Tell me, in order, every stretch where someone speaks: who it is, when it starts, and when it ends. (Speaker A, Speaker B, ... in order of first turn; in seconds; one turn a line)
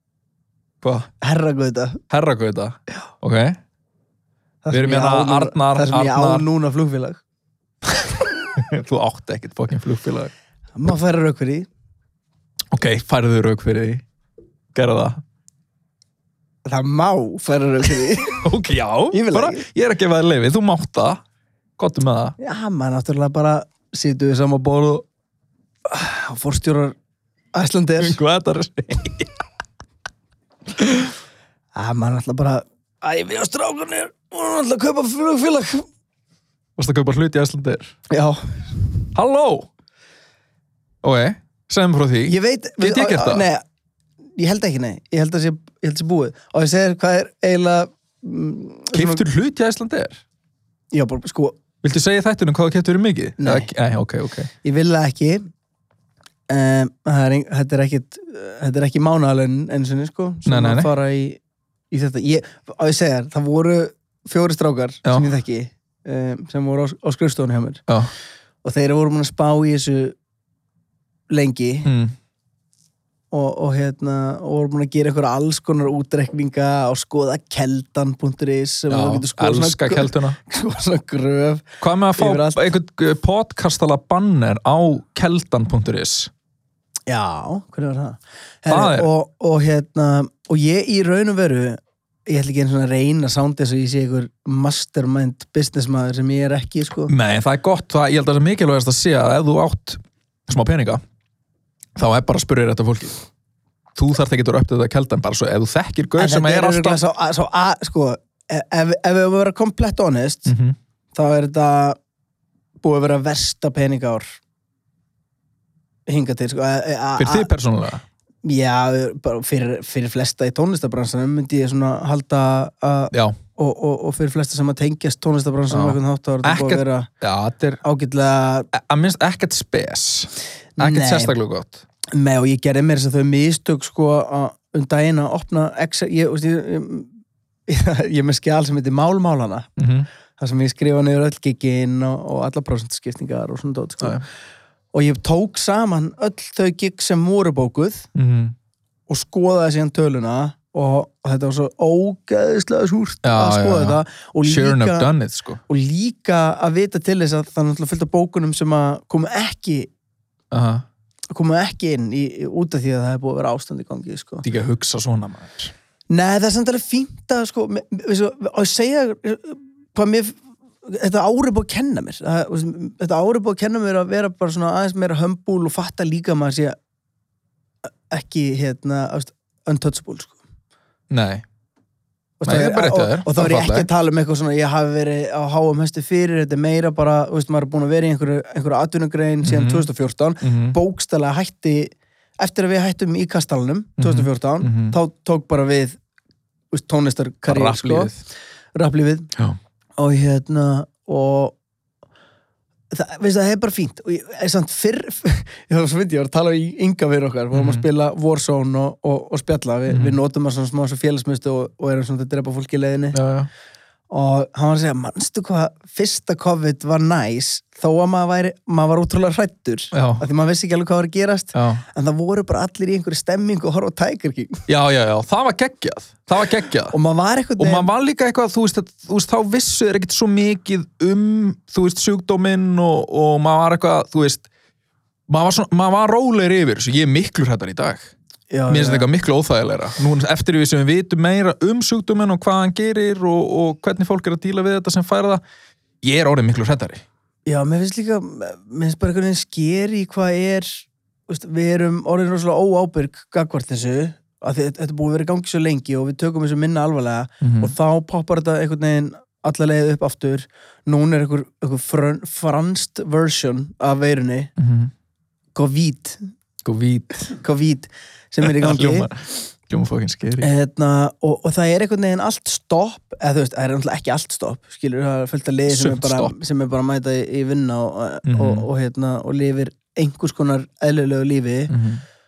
Speaker A: 0.8-1.1
Speaker B: 1.2-2.0
Speaker A: 2.1-3.6
Speaker B: 4.6-7.2
Speaker A: 4.7-6.5
Speaker A: 8.0-10.3
Speaker B: 10.8-11.7
Speaker A: 12.7-14.0
Speaker A: 14.7-15.2
Speaker B: 16.6-18.4
Speaker A: 18.3-21.2
Speaker B: 19.1-19.6
Speaker A: 21.8-22.4
Speaker B: 22.4-25.0
Speaker B: 25.9-26.9
Speaker B: 27.5-28.2
Speaker A: 28.0-29.3
Speaker A: 30.8-31.1
Speaker B: 31.7-35.8
Speaker A: 36.8-37.9
Speaker B: 38.1-38.6
Speaker A: 39.1-39.7
Speaker A: 41.0-43.5
Speaker B: 42.2-43.6
Speaker B: 44.4-49.2
Speaker A: 48.9-50.2
Speaker B: 50.9-51.6
Speaker A: 51.8-54.5
Speaker B: 53.4-53.7
Speaker B: 54.6-55.4
Speaker B: 56.5-61.4
Speaker A: 60.5-60.9
Speaker B: 61.9-67.8
Speaker B: 68.6-70.1
Speaker B: 71.3-71.9
Speaker A: 71.8-72.1
Speaker B: 73.3-82.6
Speaker A: 78.9-80.4
Speaker A: 81.8-86.3
Speaker B: 87.1-97.1
Speaker A: 88.7-89.1
Speaker A: 97.1-101.0
Speaker A: 102.0-103.2
Speaker A: 103.9-107.0
Speaker B: 106.2-110.5
Speaker A: 110.5-110.8
Speaker B: 111.1-112.0
Speaker B: 112.8-114.4
Speaker B: 116.1-117.5
Speaker A: 117.2-118.0
Speaker B: 118.4-127.1
Speaker A: 123.1-123.4
Speaker A: 125.7-127.8
Speaker B: 127.8-128.7
Speaker A: 128.7-131.8
Speaker B: 130.8-131.3
Speaker B: 132.1-137.1
Speaker B: 137.7-139.7
Speaker A: 139.8-140.1
Speaker B: 140.4-144.2
Speaker B: 144.9-148.1
Speaker A: 148.1-148.5
Speaker B: 149.1-155.1
Speaker A: 153.2-155.6
Speaker B: 155.7-159.9
Speaker A: 160.5-160.8
Speaker B: 161.3-164.4
Speaker A: 164.4-165.7
Speaker B: 166.1-176.8
Speaker B: 178.1-180.4
Speaker A: 181.1-181.4
Speaker B: 182.4-196.0
Speaker A: 182.4-183.9
Speaker A: 189.4-189.9
Speaker A: 190.4-190.8
Speaker A: 194.0-194.9
Speaker B: 196.7-198.1
Speaker A: 197.4-198.2
Speaker B: 198.7-199.3
Speaker B: 200.0-201.6
Speaker B: 202.9-213.2
Speaker A: 207.5-207.8
Speaker A: 209.9-210.2
Speaker A: 213.1-213.5
Speaker B: 214.1-224.6
Speaker A: 219.9-220.2
Speaker A: 221.5-221.8
Speaker A: 224.7-226.9
Speaker B: 226.9-227.9
Speaker A: 227.6-234.5
Speaker A: 235.3-238.0
Speaker B: 238.5-239.1
Speaker A: 238.7-245.4
Speaker A: 246.0-247.0
Speaker B: 247.4-264.5
Speaker A: 257.4-257.7
Speaker A: 264.6-264.9
Speaker B: 265.5-266.2
Speaker A: 266.6-267.1
Speaker B: 267.3-269.1
Speaker A: 268.4-270.5
Speaker B: 270.4-281.7
Speaker A: 275.7-276.3
Speaker A: 278.2-278.7
Speaker A: 281.7-282.0